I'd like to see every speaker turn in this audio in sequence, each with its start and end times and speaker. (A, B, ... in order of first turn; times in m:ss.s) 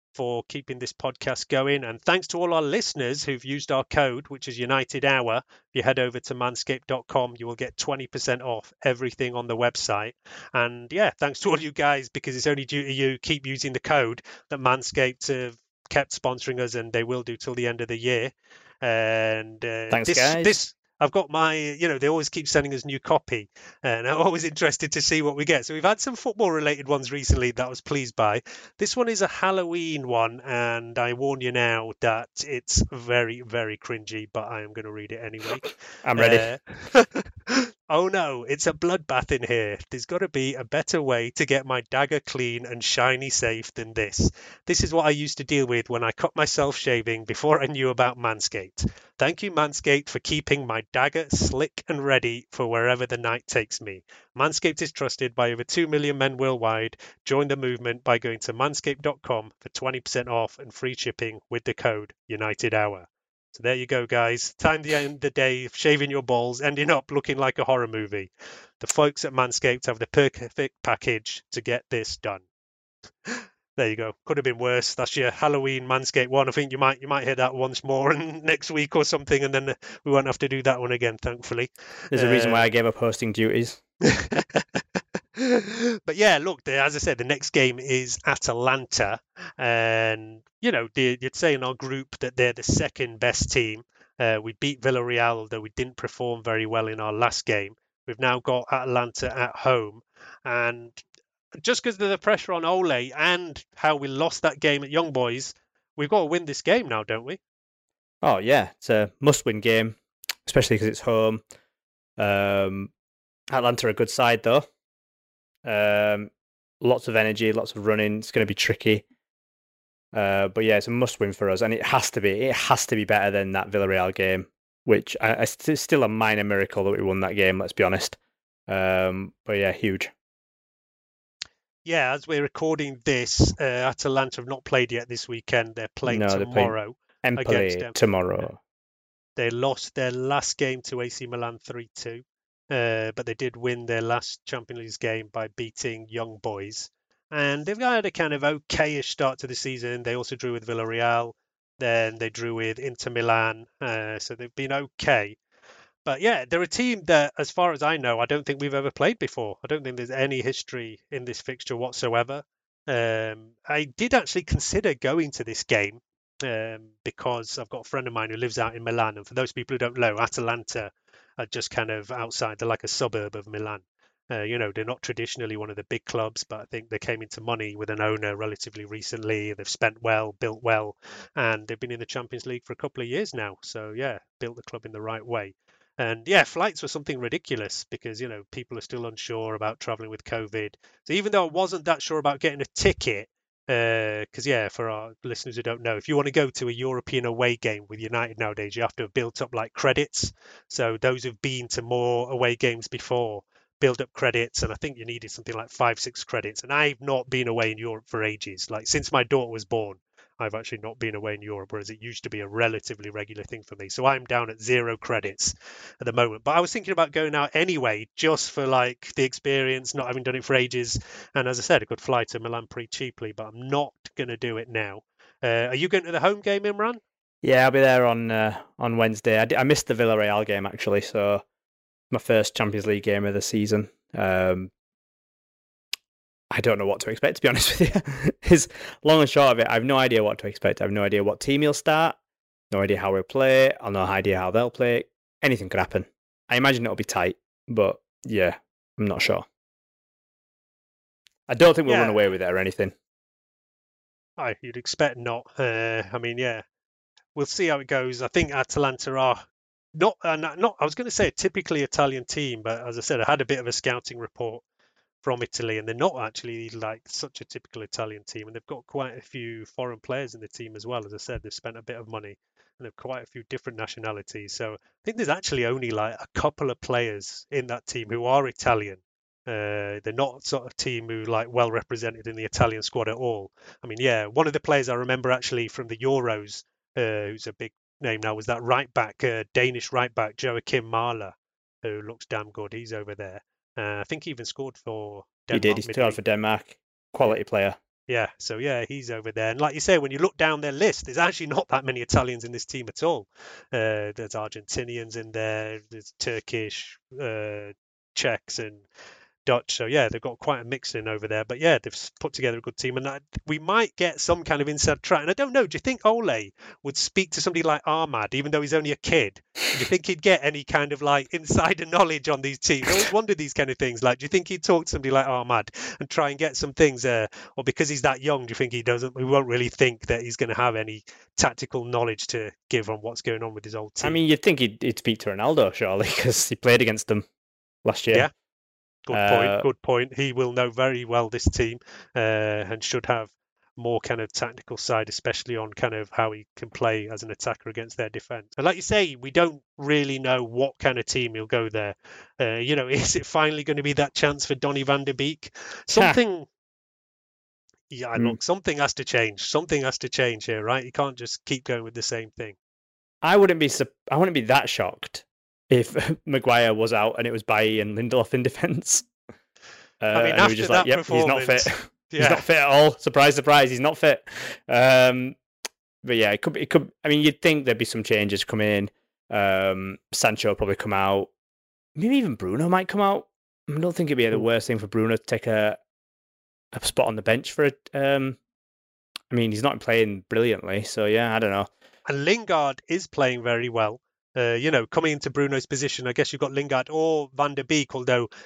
0:00.1-1:08.3 A
0:19.9-0:20.6 B
0:36.0-0:36.5 B
1:08.8-1:12.4 A
1:13.2-1:22.7 A
1:22.1-1:23.8 B
1:24.1-1:24.8 A
1:25.4-1:41.0 A
1:41.6-1:47.4 A
1:48.2-1:51.4 B
1:52.2-1:52.9 B
1:53.5-1:54.7 B
1:55.6-1:59.0 B
2:00.1-2:08.2 B
2:08.7-2:10.1 B
2:11.8-2:18.0 A
2:16.0-2:18.6 B
2:19.4-2:35.4 A
2:36.0-3:47.0 A
3:47.4-3:51.4 B
3:52.1-3:54.7 B
3:56.5-4:02.2 B
4:02.7-4:09.4 B
4:11.5-4:12.9 B
4:11.8-4:12.2 A
4:14.4-4:16.6 A
4:17.3-4:19.4 A
4:19.9-4:24.6 A
4:25.2-4:56.2 A
4:55.5-4:57.8 B
4:58.1-5:08.8 A
5:09.4-5:34.2 A
5:34.0-5:37.2 B
5:37.8-5:38.3 B
5:39.0-5:56.5 A
5:39.1-5:39.7 B
5:55.9-5:56.2 B
5:57.9-6:02.5 A
6:03.2-6:09.1 B
6:10.0-6:15.4 B
6:10.1-6:12.4 A
6:16.0-6:21.3 B
6:22.0-6:25.8 B
6:26.7-6:28.4 B
6:29.3-6:31.7 B
6:32.0-6:38.3 A